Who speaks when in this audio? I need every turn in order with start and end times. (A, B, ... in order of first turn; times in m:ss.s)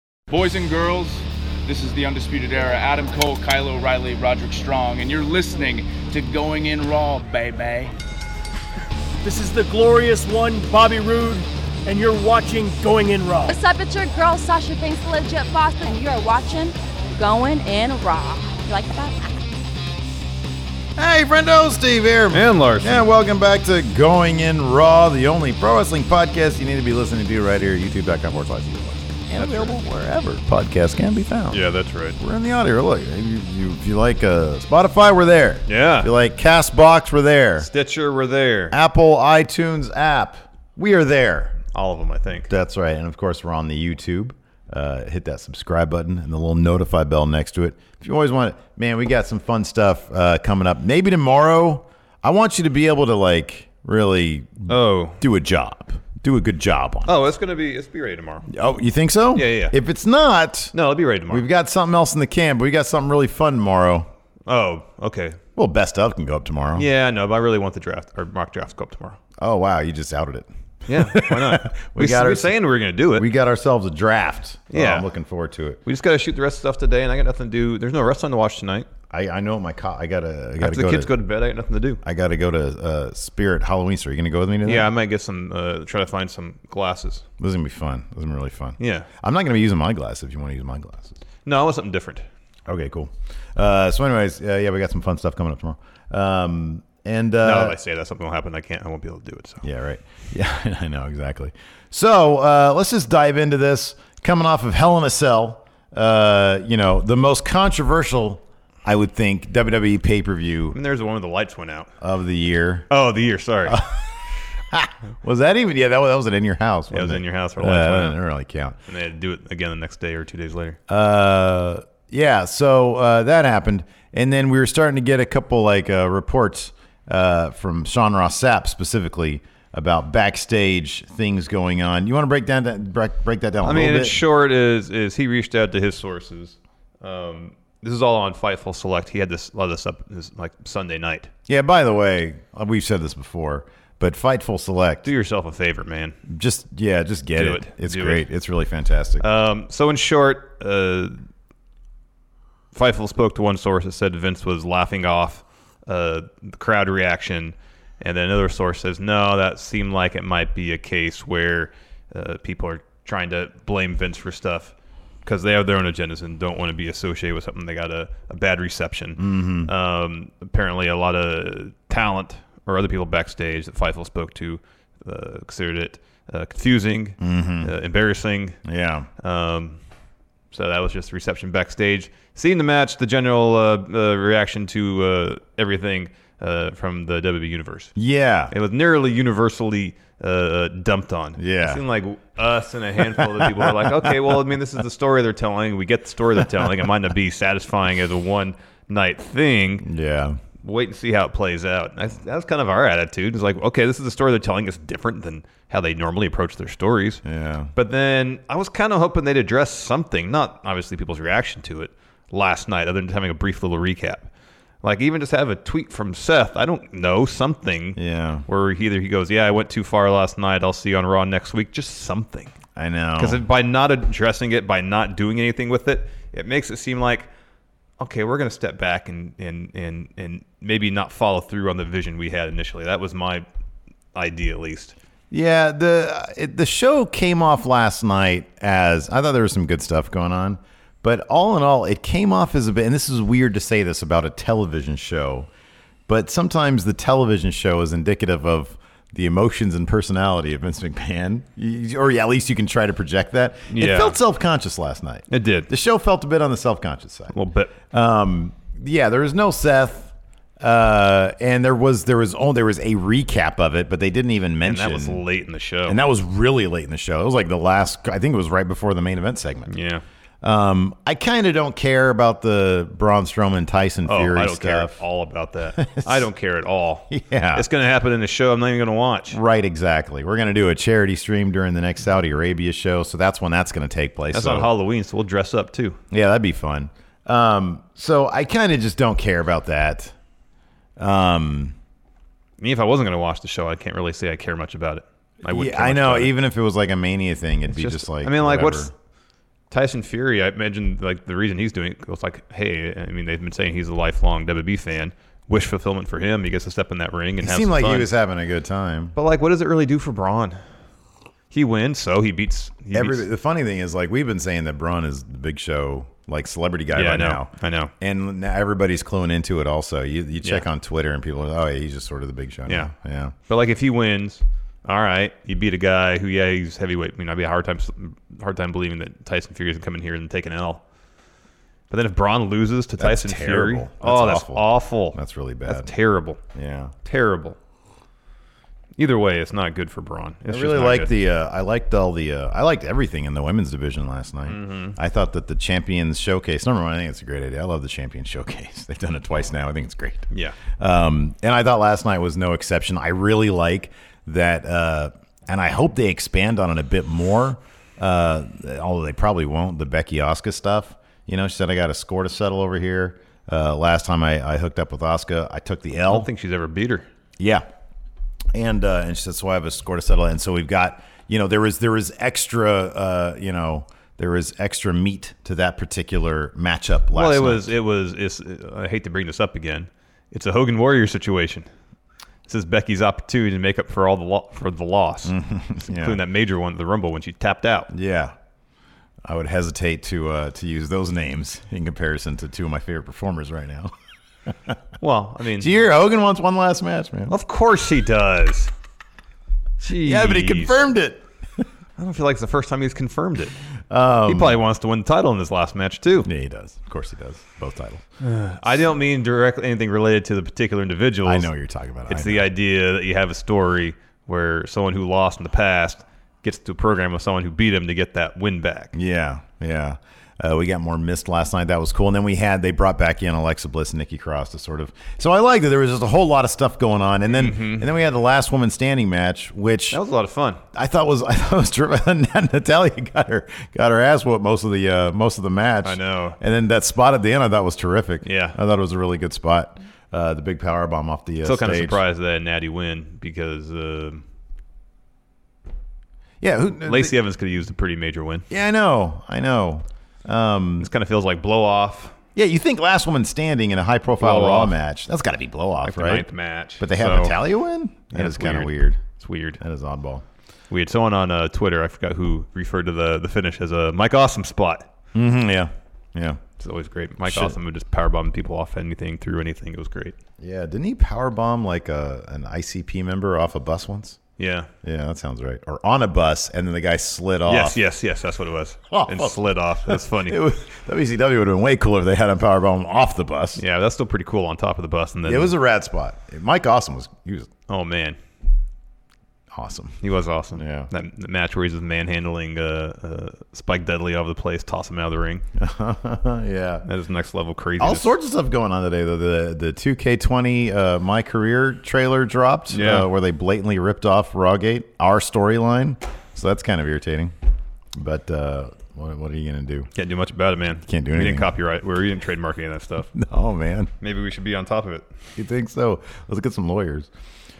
0:00.3-0:07.9 A
0:09.2-0:13.6 B
0:13.5-0:19.2 C
0:21.0-0:31.6 D
0:22.3-0:23.1 E
0:29.3-0:29.8 E
0:31.5-0:32.2 E
0:32.2-0:37.7 D
0:35.7-0:36.1 E
0:37.6-0:38.8 E
0:38.7-0:41.6 D
0:41.7-0:42.5 E
0:42.5-0:57.1 D
0:54.7-0:55.2 E
0:57.1-0:58.5 E
0:58.5-1:00.7 D
0:59.3-0:59.7 E
1:00.7-1:01.4 E
1:01.3-1:04.1 D
1:04.5-1:05.4 E
1:05.6-1:06.8 D
1:06.8-1:09.2 E
1:09.4-1:12.6 D
1:10.9-1:13.3 E
1:13.1-1:15.8 D
1:14.7-1:15.1 E
1:15.8-1:18.9 E
1:19.1-1:21.1 D
1:20.6-1:22.0 E
1:22.0-1:24.9 D
1:24.6-1:27.2 E
1:27.4-1:31.1 D
1:28.8-1:29.1 E
1:31.4-1:32.2 E
1:32.7-1:37.8 D
1:37.4-1:39.6 E
1:39.6-1:50.8 D
1:50.7-1:51.9 E
1:52.0-1:52.9 D
1:52.9-1:53.8 E
1:53.6-1:54.1 D
1:54.7-1:58.8 D
1:56.9-1:58.2 E
1:58.9-2:00.8 E
2:00.9-2:14.2 D
2:13.6-2:21.3 E
2:21.5-2:25.1 D
2:25.0-2:26.2 E
2:26.3-2:29.2 D
2:27.4-2:28.2 E
2:29.2-2:31.2 E
2:32.7-2:44.7 E
2:45.2-2:58.6 E
2:49.2-2:49.7 D
2:57.2-2:57.7 D
2:58.6-2:59.1 D
2:59.2-2:59.8 E
3:00.5-3:07.9 E
3:08.0-3:08.5 D
3:08.5-3:19.9 E
3:11.4-3:11.8 D
3:13.0-3:14.4 D
3:19.8-3:20.4 D
3:20.6-3:27.2 E
3:27.2-3:27.7 D
3:27.7-3:34.3 E
3:34.8-3:42.5 E
3:38.0-3:38.4 D
3:42.8-3:43.4 D
3:43.2-3:47.3 E
3:48.0-3:53.4 E
3:54.1-3:54.9 E
3:55.3-4:05.5 D
4:06.1-4:17.4 D
4:13.7-4:14.2 E
4:15.3-4:15.7 E
4:17.3-4:17.7 E
4:17.9-4:25.2 D
4:24.6-4:26.0 E
4:25.9-4:29.7 D
4:29.7-4:30.0 E
4:30.4-4:35.0 D
4:34.0-4:39.4 E
4:35.8-4:36.3 D
4:37.1-4:37.6 D
4:39.3-4:44.7 D
4:44.3-4:46.0 E
4:46.1-4:50.1 D
4:51.0-4:51.8 D
4:52.6-4:56.3 E
4:55.4-4:58.9 D
4:57.7-4:58.9 E
4:59.7-5:08.1 E
5:07.4-5:09.1 D
5:09.1-5:10.6 E
5:11.5-5:13.3 E
5:12.9-5:23.3 D
5:16.9-5:17.9 E
5:23.5-5:30.8 E
5:31.9-5:36.4 E
5:33.0-5:35.9 D
5:36.5-5:36.9 D
5:37.0-5:37.6 E
5:39.0-5:41.1 E
5:40.5-6:06.3 D
5:44.5-5:45.0 E
5:50.3-5:50.6 E
6:06.1-6:07.1 E
6:07.4-6:07.6 D
6:08.5-6:17.7 D
6:17.1-6:21.6 E
6:22.5-6:25.4 E
6:25.2-6:26.2 D
6:25.9-6:27.9 E
6:27.9-6:28.3 D
6:29.2-6:33.9 D
6:35.0-6:35.7 E
6:35.6-6:37.3 D
6:37.3-6:38.7 E
6:39.8-6:40.8 E
6:39.9-6:41.6 D
6:42.0-6:43.6 E
6:43.9-6:44.6 D
6:44.3-6:46.3 E
6:46.2-6:48.0 D
6:48.2-6:51.5 E
6:51.2-6:52.5 D
6:52.1-6:58.9 E
6:58.9-7:10.0 D
7:07.2-7:07.9 E
7:09.9-7:10.6 E
7:10.7-7:22.0 D
7:15.8-7:16.4 E
7:18.2-7:18.6 E
7:21.4-7:24.2 E
7:26.4-7:27.2 D
7:26.8-7:28.4 E
7:28.5-7:30.9 D
7:30.8-7:32.1 E
7:32.3-7:36.3 D
7:34.2-7:34.7 E
7:35.8-7:37.4 E
7:36.8-7:39.0 D
7:38.1-7:39.6 E
7:39.6-7:40.2 D
7:40.7-7:44.9 E
7:45.1-7:46.4 D
7:46.6-7:50.2 E
7:47.2-7:47.6 D
7:50.4-7:54.2 D
7:54.4-7:54.7 E
7:54.8-7:57.8 D
7:57.5-8:00.4 E
7:58.9-8:03.6 D
8:03.6-8:05.5 E
8:05.2-8:07.5 D
8:07.7-8:08.2 E
8:09.5-8:10.0 D
8:10.0-8:15.4 E
8:10.5-8:10.9 D
8:15.6-8:16.8 D
8:16.8-8:18.1 E
8:17.8-8:27.3 D
8:22.7-8:23.1 E
8:28.0-8:29.9 D
8:30.0-8:33.1 E
8:30.9-8:31.5 D
8:33.1-8:33.9 D
8:34.0-8:35.1 E
8:35.4-8:37.1 D